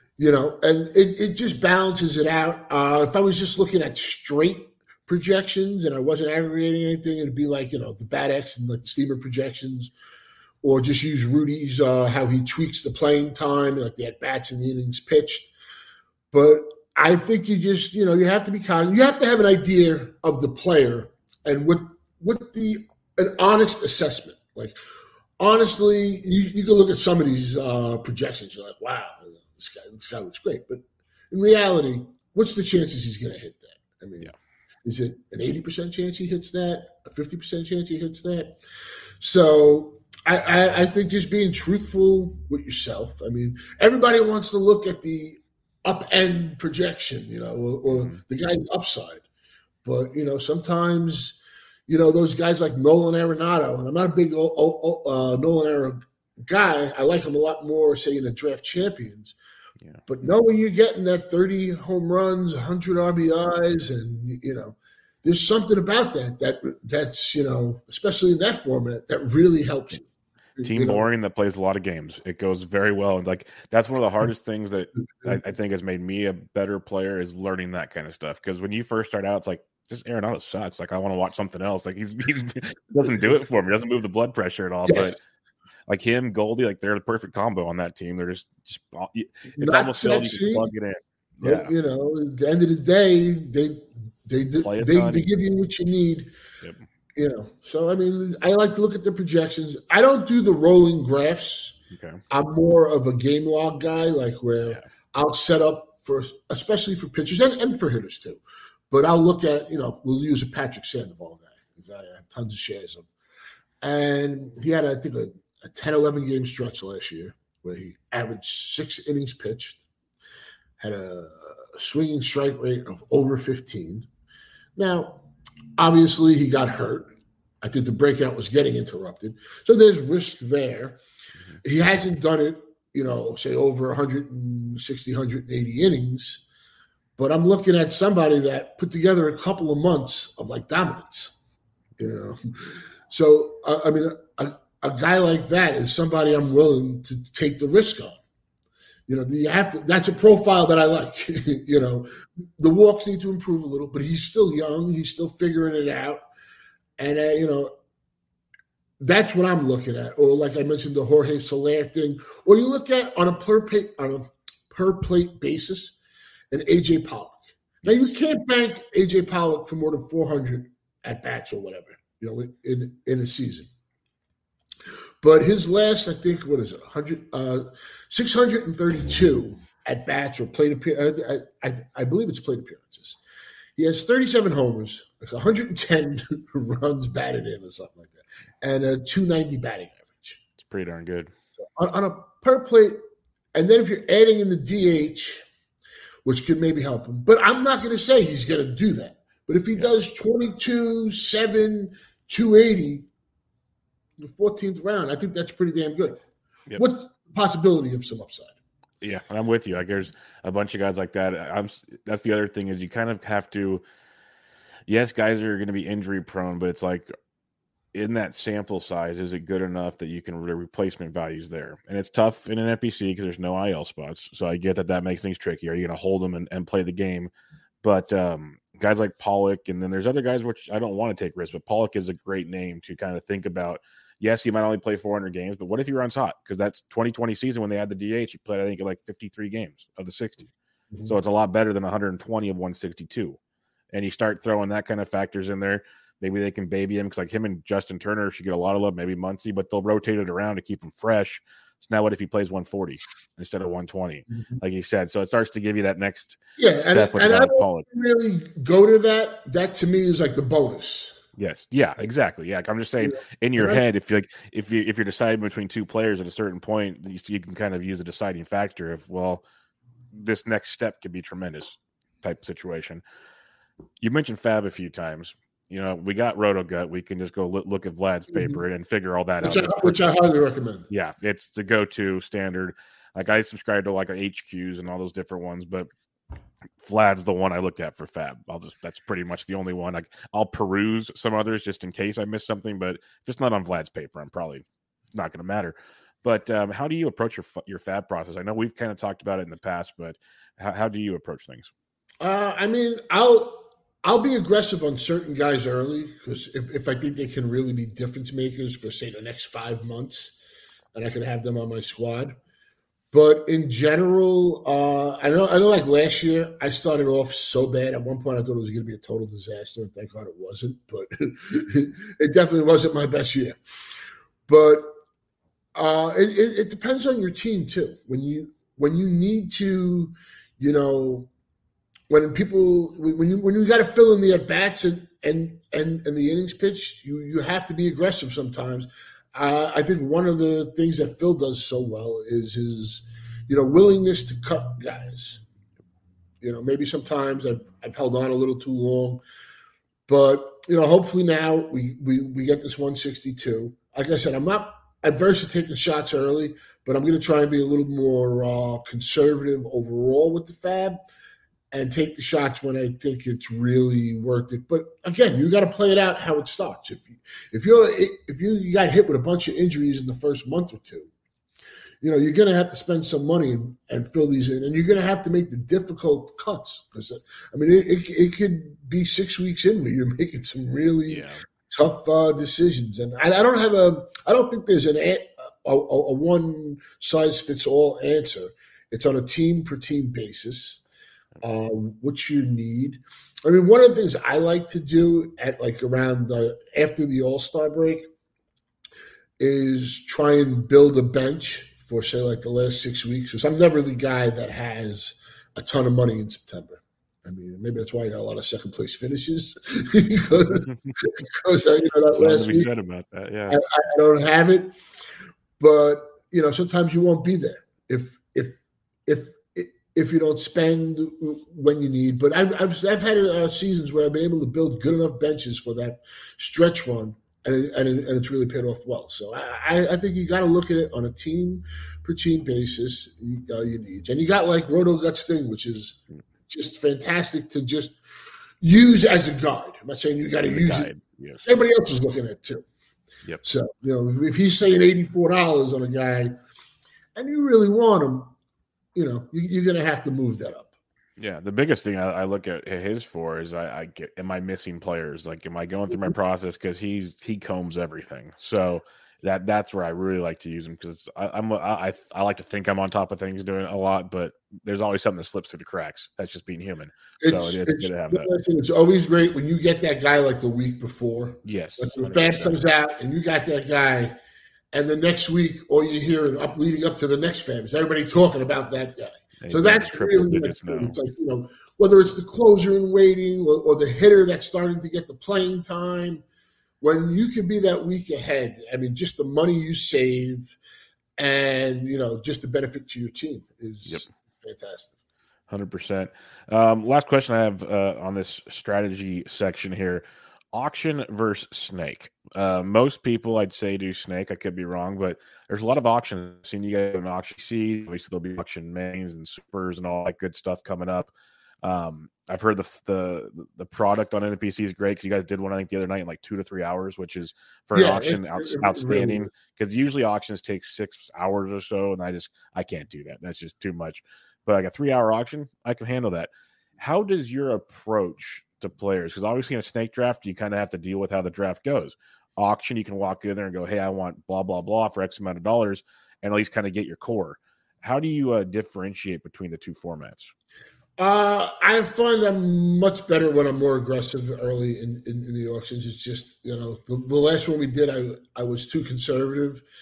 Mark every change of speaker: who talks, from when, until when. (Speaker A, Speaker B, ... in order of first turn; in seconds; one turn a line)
Speaker A: 0.2-9.9
Speaker A: 10.6-15.5
Speaker A: 16.3-24.8
Speaker A: 25.4-34.3
Speaker A: 34.8-38.5
Speaker A: 39.2-49.2
Speaker B: 47.9-48.2
Speaker A: 49.8-59.4
Speaker A: 60.1-70.0
Speaker A: 70.6-71.0
Speaker B: 70.6-85.2
Speaker A: 84.8-85.2
Speaker B: 85.9-91.7
Speaker A: 89.5-90.7
Speaker A: 91.4-96.3
Speaker B: 94.6-95.3
Speaker A: 97.2-101.8
Speaker B: 101.9-102.2
Speaker A: 102.3-108.4
Speaker A: 108.9-113.0
Speaker A: 113.8-119.8
Speaker A: 120.8-124.0
Speaker A: 124.8-125.2
Speaker A: 125.8-131.0
Speaker A: 131.6-136.4
Speaker A: 137.2-141.3
Speaker A: 142.0-148.2
Speaker A: 149.1-156.2
Speaker A: 157.0-157.7
Speaker A: 159.0-165.9
Speaker A: 166.5-173.7
Speaker A: 175.2-183.2
Speaker A: 183.8-190.4
Speaker B: 190.6-191.3
Speaker A: 191.8-193.0
Speaker A: 193.5-195.4
Speaker A: 196.2-203.1
Speaker A: 204.2-206.2
Speaker A: 206.8-208.5
Speaker B: 209.0-213.8
Speaker B: 214.9-217.1
Speaker B: 217.9-227.3
Speaker B: 227.8-240.5
Speaker A: 240.9-241.2
Speaker B: 241.0-243.4
Speaker B: 243.9-257.9
Speaker A: 254.3-254.6
Speaker A: 256.6-261.2
Speaker B: 261.4-269.4
Speaker A: 263.0-263.8
Speaker B: 270.1-273.0
Speaker B: 274.0-280.1
Speaker A: 278.3-278.6
Speaker A: 279.4-280.9
Speaker B: 280.9-285.9
Speaker B: 286.8-301.7
Speaker A: 302.2-310.4
Speaker A: 310.9-312.4
Speaker A: 313.1-323.6
Speaker A: 324.5-324.9
Speaker A: 325.7-331.3
Speaker A: 332.1-345.4
Speaker A: 346.4-349.2
Speaker A: 350.1-361.0
Speaker A: 361.7-371.1
Speaker A: 372.0-390.8
Speaker B: 381.1-381.4
Speaker A: 391.4-398.1
Speaker A: 399.4-412.7
Speaker B: 412.1-413.6
Speaker A: 413.5-414.7
Speaker A: 415.6-436.0
Speaker A: 436.5-437.9
Speaker A: 438.6-440.9
Speaker B: 440.5-441.4
Speaker A: 441.4-442.6
Speaker A: 443.4-446.3
Speaker A: 447.1-448.3
Speaker A: 448.9-450.7
Speaker B: 451.2-468.3
Speaker A: 467.2-474.1
Speaker B: 471.4-472.6
Speaker A: 474.7-486.2
Speaker B: 479.4-481.0
Speaker A: 486.8-490.6
Speaker A: 491.2-494.9
Speaker B: 495.5-511.1
Speaker B: 511.6-540.3
Speaker A: 517.7-519.3
Speaker A: 541.0-549.6